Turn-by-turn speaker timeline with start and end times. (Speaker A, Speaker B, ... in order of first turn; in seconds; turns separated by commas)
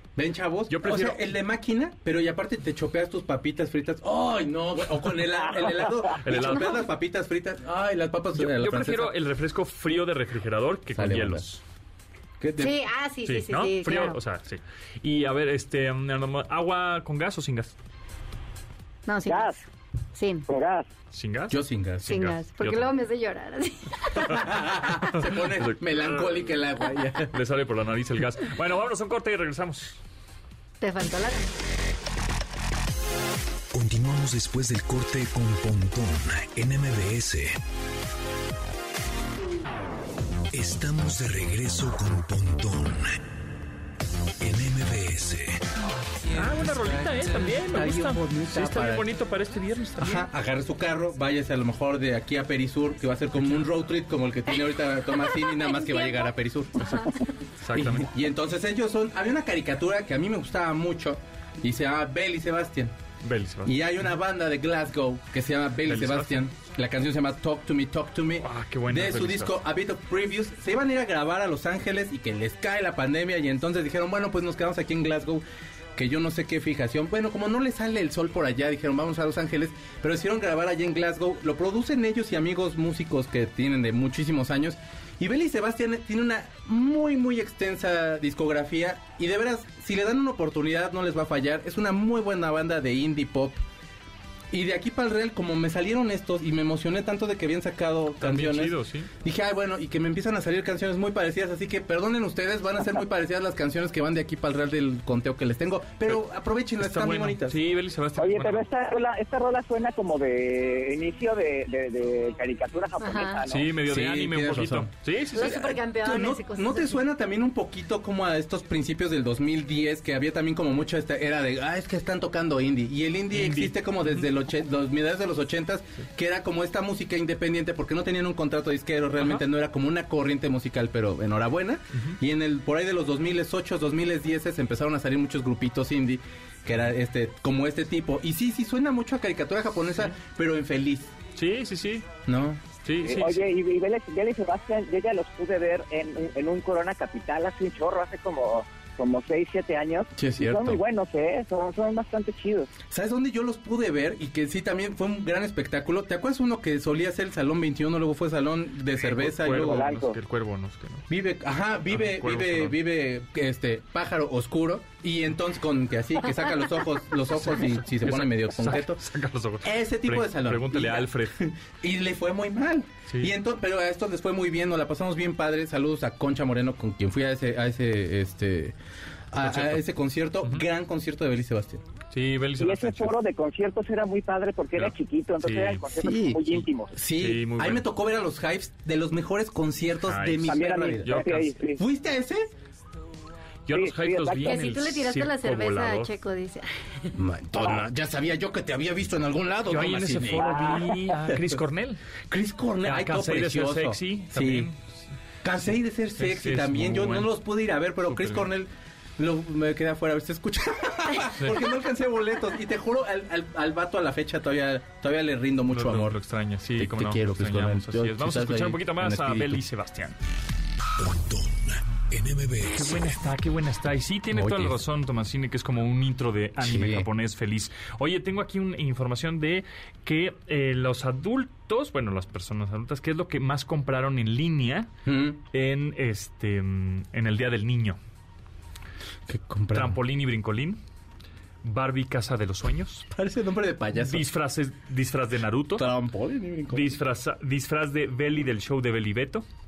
Speaker A: 0.1-9.1, Speaker B: 0.7-1.2, Speaker C: 5.6-6.1, Speaker B: 6.2-6.9, Speaker B: 8.4-11.6, Speaker A: 10.9-11.4, Speaker A: 12.4-12.8, Speaker D: 12.6-14.2, Speaker B: 13.3-17.7, Speaker D: 19.1-19.6, Speaker C: 19.3-19.6, Speaker D: 20.1-20.5, Speaker C: 20.5-20.9, Speaker B: 21.1-22.9, Speaker A: 21.5-22.2, Speaker D: 22.1-24.5, Speaker A: 24.2-27.4, Speaker B: 25.1-26.4, Speaker B: 27.2-30.0, Speaker D: 30.8-31.5, Speaker E: 33.7-37.6, Speaker E: 40.5-43.2, Speaker E: 44.4-45.6, Speaker B: 46.3-50.3, Speaker A: 47.7-49.1, Speaker A: 50.0-56.9, Speaker D: 55.6-56.3, Speaker B: 56.8-58.1, Speaker A: 57.7-62.9, Speaker B: 63.2-63.8, Speaker A: 63.6-75.4, Speaker B: 65.9-66.4, Speaker B: 68.4-69.6, Speaker A: 76.0-93.6, Speaker A: 94.5-107.6, Speaker B: 98.2-99.1, Speaker B: 106.8-108.7, Speaker C: 108.2-113.7, Speaker D: 113.0-113.4, Speaker B: 113.5-115.7, Speaker A: 113.8-141.1, Speaker D: 115.3-117.0, Speaker B: 123.3-124.2, Speaker B: 141.3-142.1, Speaker A: 142.3-142.6, Speaker B: 142.8-143.4, Speaker C: 143.0-152.7, Speaker A: 150.2-150.8, Speaker A: 152.9-159.9, Speaker B: 159.0-161.1, Speaker C: 159.4-160.2, Speaker A: 161.1-169.0, Speaker B: 161.9-162.8, Speaker B: 167.4-171.4, Speaker A: 169.6-178.8, Speaker A: 179.3-181.8, Speaker B: 179.4-179.8, Speaker B: 182.1-183.1, Speaker C: 182.6-186.9, Speaker B: 184.8-185.8, Speaker A: 186.0-191.2, Speaker B: 187.1-187.8, Speaker B: 190.1-191.6, Speaker C: 190.4-191.8, Speaker A: 191.8-192.5, Speaker B: 193.7-196.1, Speaker C: 193.7-194.6, Speaker D: 194.4-197.1, Speaker A: 197.1-200.6, Speaker B: 199.7-202.0, Speaker C: 200.4-201.0, Speaker A: 201.3-201.6, Speaker A: 202.3-204.7, Speaker B: 202.8-204.8, Speaker A: 205.4-216.2, Speaker B: 206.2-207.3, Speaker B: 208.1-208.5, Speaker B: 215.7-220.2, Speaker A: 216.8-219.6, Speaker E: 221.0-223.0, Speaker B: 222.7-234.9, Speaker A: 224.3-224.8, Speaker A: 226.6-227.1, Speaker A: 235.1-235.4, Speaker B: 235.5-238.0, Speaker A: 239.3-240.0, Speaker B: 239.7-240.8, Speaker B: 241.6-243.1, Speaker A: 243.1-244.2, Speaker B: 244.0-245.9, Speaker A: 245.8-247.0, Speaker B: 246.7-249.4